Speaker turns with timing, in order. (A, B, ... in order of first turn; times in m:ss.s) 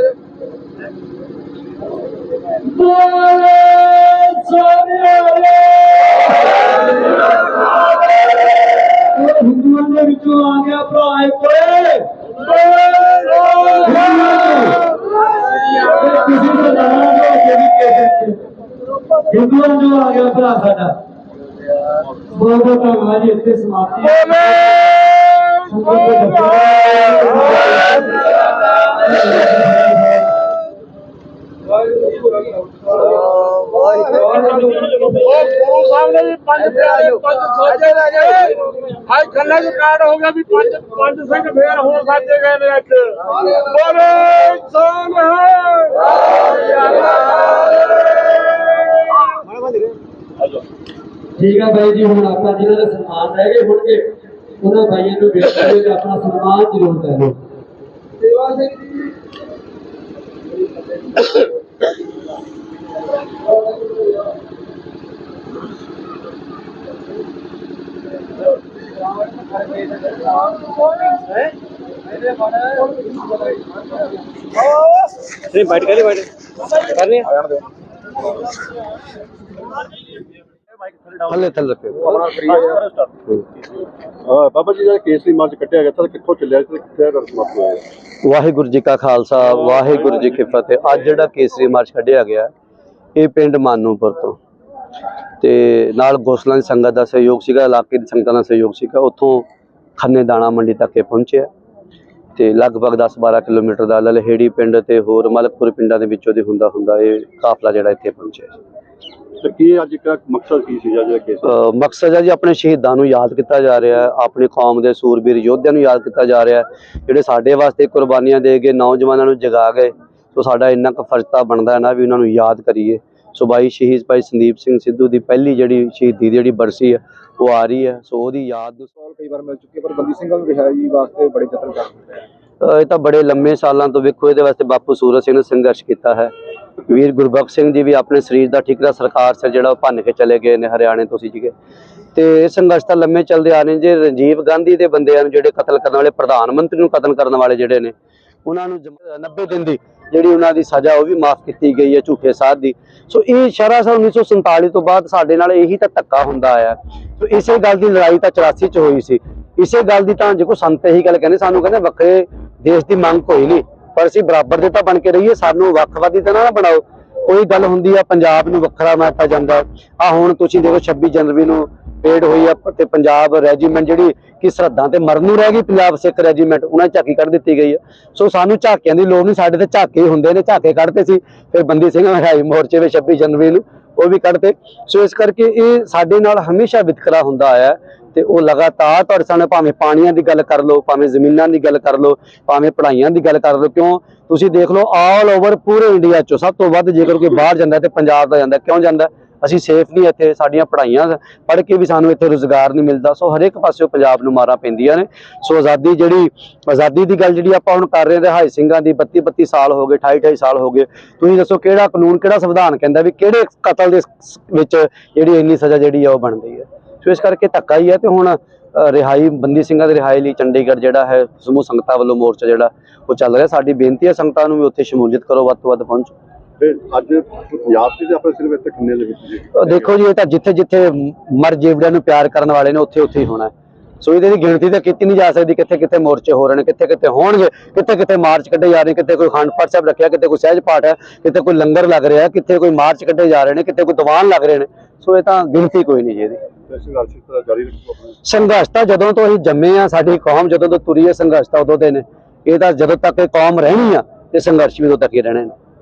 0:02.6-0:06.5 A
0:09.1-0:14.8 A
0:15.8-0:18.4 A
0:19.3-0:21.0 A
0:22.3-0:24.8 A
0:25.6-0:30.3 A
0:34.0-0:35.5 A
0:35.1-0:46.1 B
0:46.6-0:47.1 B
0:51.4-0:54.1 A
0:54.6-0:57.4 A
1:15.5-1:16.3 B
1:21.3-1:22.2 C
1:22.0-1:23.0 D
1:24.2-1:27.8 D
1:28.2-1:32.5 C
1:33.2-1:34.4 C
1:35.4-1:39.5 C
1:40.0-1:41.5 C
1:42.4-1:48.6 C
1:49.4-1:51.4 D
1:51.4-2:08.9 C
2:09.0-2:12.2 D
2:12.6-2:21.5 C
2:22.2-2:27.9 C
2:28.4-3:46.1 C
3:46.6-3:49.9 D
3:49.6-4:06.4 C
4:06.7-4:08.2 D
4:08.2-4:15.6 C